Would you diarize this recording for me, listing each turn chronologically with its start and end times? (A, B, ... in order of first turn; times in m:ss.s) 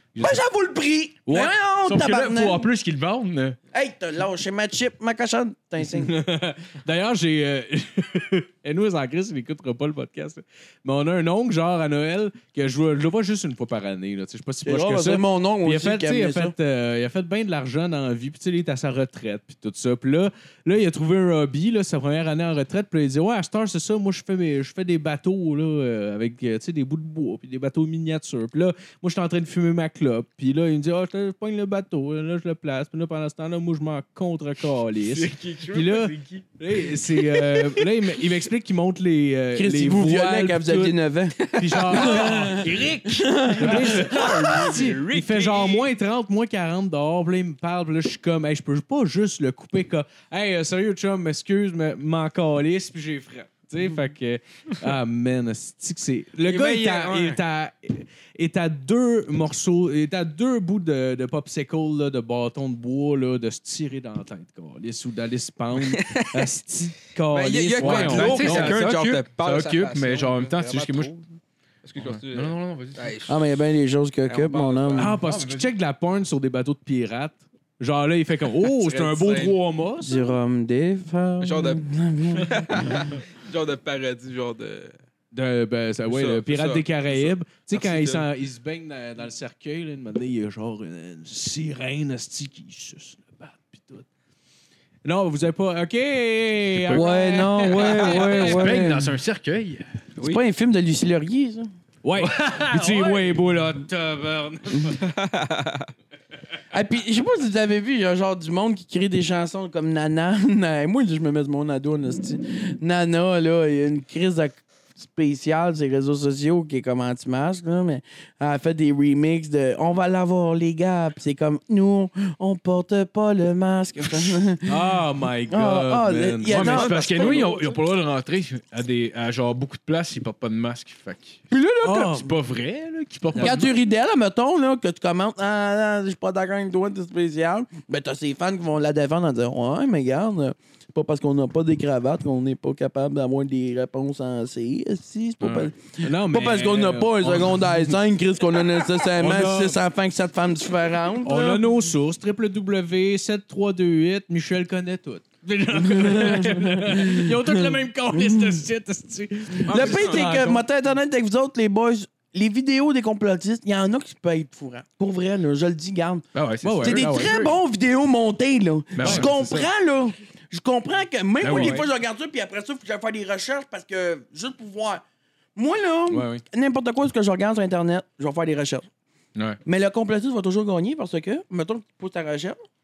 0:00.1-0:00.4 A
0:00.2-0:02.7 B
0:01.3-0:03.6 A
0:03.7-0:06.1 B
0:05.8-1:08.9 C
0:14.6-0:16.5 B
0:35.0-0:36.5 A
0:39.5-0:44.7 B
0:41.6-0:42.2 D
0:42.4-0:43.0 A
0:43.7-0:45.9 D
0:56.4-0:57.4 D
1:05.8-1:06.5 D
1:07.3-1:11.2 D
1:07.8-1:11.2 A
1:11.8-1:13.4 D
1:12.0-1:13.2 A
1:13.3-1:15.2 B
1:14.2-1:15.1 D
1:15.0-1:20.4 C
1:15.2-1:15.7 A
1:18.8-1:19.6 D
1:20.0-1:22.9 B
1:21.4-1:21.8 D
1:22.4-1:25.0 D
1:25.3-1:34.1 C
1:26.1-1:28.2 D
1:35.0-1:38.7 C
1:36.8-1:39.8 A
1:36.9-1:39.1 B
1:40.2-1:41.7 B
1:42.0-1:45.0 C
1:42.2-1:43.4 A
1:44.9-1:45.9 D
1:46.7-2:04.7 B
2:04.7-2:07.5 C
2:05.5-2:07.7 B
2:06.5-2:11.4 A
2:11.5-2:12.2 B
2:11.8-2:12.3 C
2:12.1-2:13.7 A
2:13.3-2:13.6 C
2:13.4-2:31.7 B
2:25.4-2:27.9 C
2:29.2-2:29.8 C
2:31.2-2:40.6 C
2:35.7-2:37.6 B
2:38.2-2:38.6 B
2:39.7-2:46.2 B
2:39.7-2:40.4 D
2:46.4-2:47.5 A
2:46.6-2:47.4 C
2:46.8-2:55.0 B
2:49.0-2:49.3 A
2:49.0-2:49.7 C
2:51.4-2:51.9 A
2:51.5-2:51.8 C
2:55.6-2:58.9 B
2:56.1-2:56.4 C
2:59.6-3:02.6 B